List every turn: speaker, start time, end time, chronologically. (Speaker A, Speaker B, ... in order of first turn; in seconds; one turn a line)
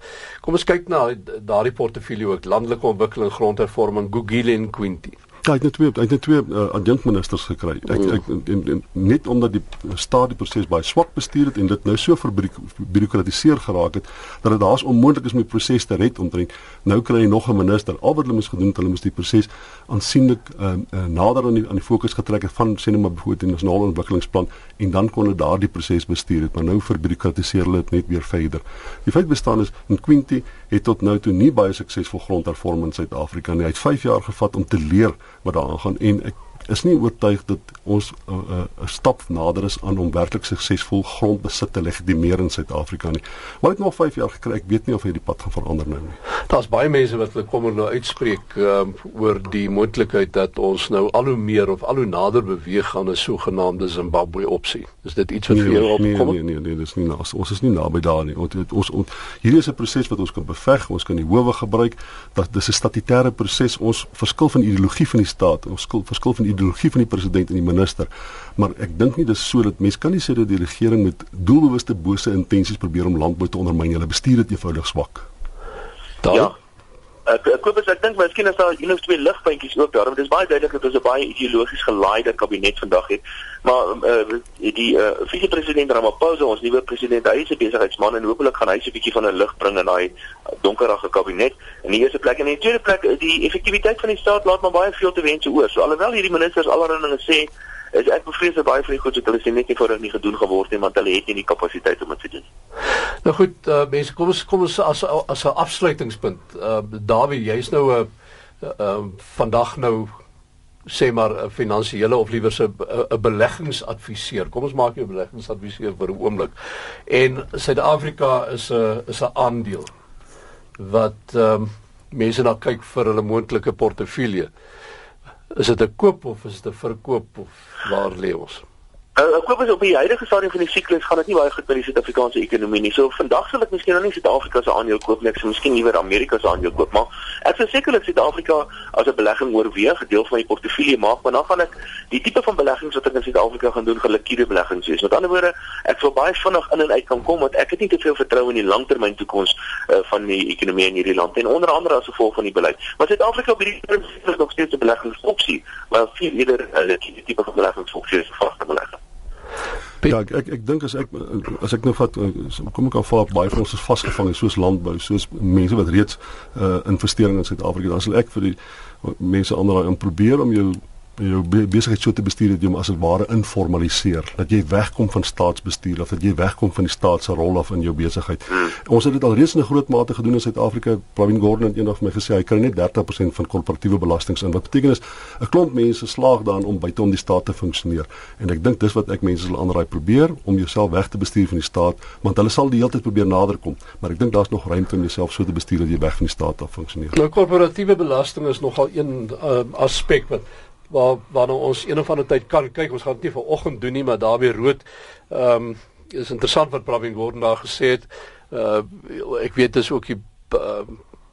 Speaker A: 0.4-5.2
Speaker B: 5.4-46.2
Speaker A: 46.5-56.3
Speaker B: 55.5-75.2
Speaker A: 76.2-76.5
Speaker C: 77.2-102.5
Speaker A: 103.2-108.1
Speaker A: 108.6-110.1
Speaker A: 110.9-116.5
Speaker A: 117.1-119.9
Speaker A: 120.8-124.5
Speaker A: 125.5-128.6
Speaker C: 129.2-159.0
Speaker B: 160.0-197.2
Speaker A: 197.1-211.0